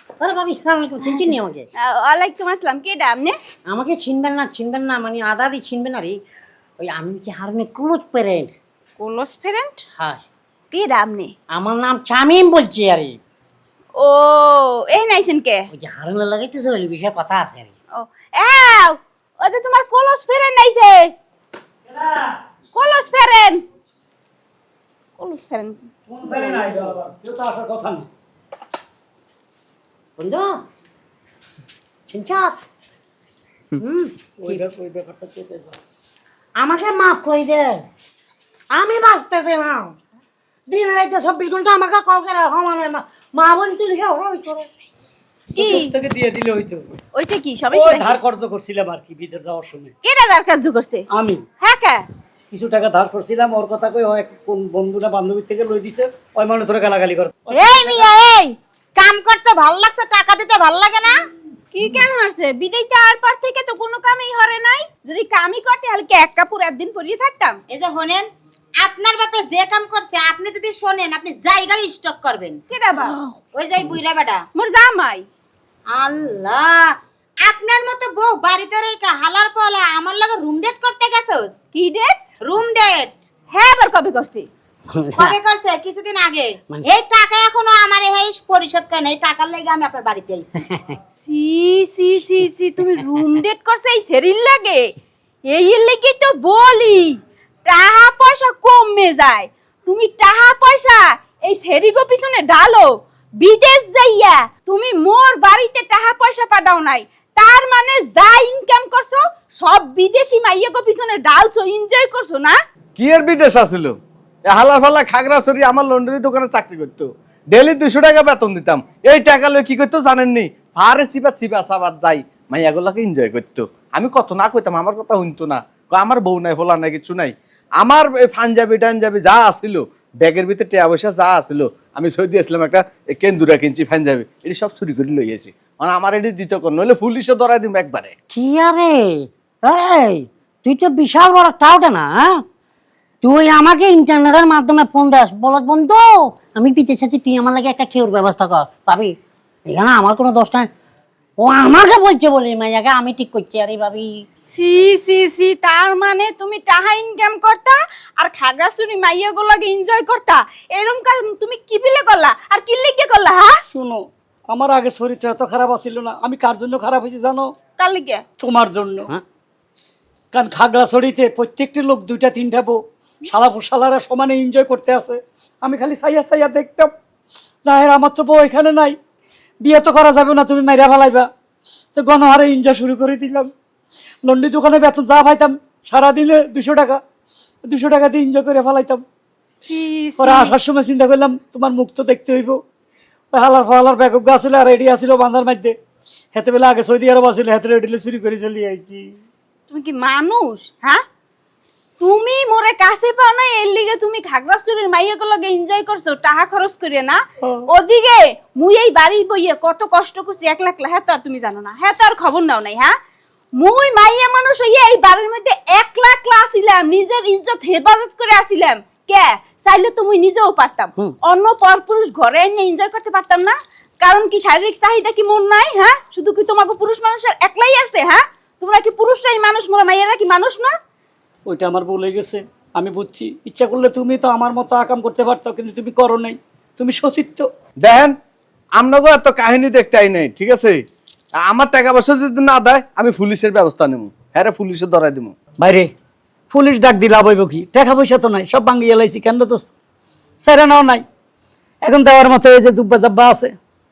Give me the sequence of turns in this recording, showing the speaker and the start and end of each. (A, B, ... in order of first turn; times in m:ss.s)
0:00.2-0:01.7 A
0:01.8-0:03.4 B
0:03.7-0:06.2 A
0:06.8-0:08.5 A
0:09.0-0:09.8 B
0:09.9-0:10.2 A
0:10.7-0:11.3 B
0:11.5-0:13.2 A
0:14.0-0:15.7 B
0:15.7-0:17.7 A
0:17.9-0:21.1 B
0:21.9-0:22.4 C
0:22.7-0:23.6 B
0:25.2-0:27.0 B
0:26.1-0:28.1 C
0:30.2-0:30.6 A
0:32.1-0:32.6 A
0:33.8-0:34.6 A
0:34.4-0:35.8 C
0:36.6-0:37.8 A
0:38.7-0:40.0 A
0:40.7-0:44.7 A
0:45.5-0:46.9 C
0:45.5-0:45.9 B
0:47.1-0:48.2 B
0:47.7-0:49.9 C
0:50.0-0:51.1 B
0:51.1-0:51.4 C
0:51.6-0:52.1 B
0:52.5-0:58.0 C
0:57.5-1:01.2 D
1:01.7-1:07.6 B
1:07.7-1:08.3 D
1:08.8-1:14.4 D
1:12.7-1:13.2 B
1:14.5-1:15.2 B
1:15.9-1:21.6 D
1:21.7-1:22.2 B
1:22.4-1:23.2 D
1:23.5-1:24.4 B
1:24.9-1:25.4 A
1:25.2-1:30.6 D
1:30.6-1:30.9 A
1:31.2-1:34.9 B
1:35.5-1:52.6 B
1:53.0-1:54.0 E
1:54.5-2:18.1 E
2:18.3-2:22.4 A
2:23.2-2:29.1 A
2:29.7-2:30.7 A
2:31.4-2:34.2 A
2:34.5-2:43.6 B
2:43.7-2:47.5 C
2:47.8-2:48.2 B
2:48.4-2:49.1 C
2:50.3-2:56.9 C
2:57.6-2:59.0 C
2:59.6-3:01.3 C
3:02.0-3:03.5 C
3:04.2-3:07.0 C
3:07.6-3:09.0 C
3:09.6-3:10.5 B
3:10.2-3:12.6 C
3:13.3-3:15.8 C
3:16.3-3:19.1 C
3:19.7-3:21.0 B
3:22.0-3:32.9 B
3:27.4-3:27.7 C
3:33.6-3:50.7 B
3:51.5-3:57.5 C
3:57.8-3:58.2 E
3:58.8-4:00.8 E
4:01.4-4:05.3 E
4:05.6-4:05.9 C
4:06.5-4:09.7 C
4:10.4-4:11.0 C
4:11.8-4:13.5 C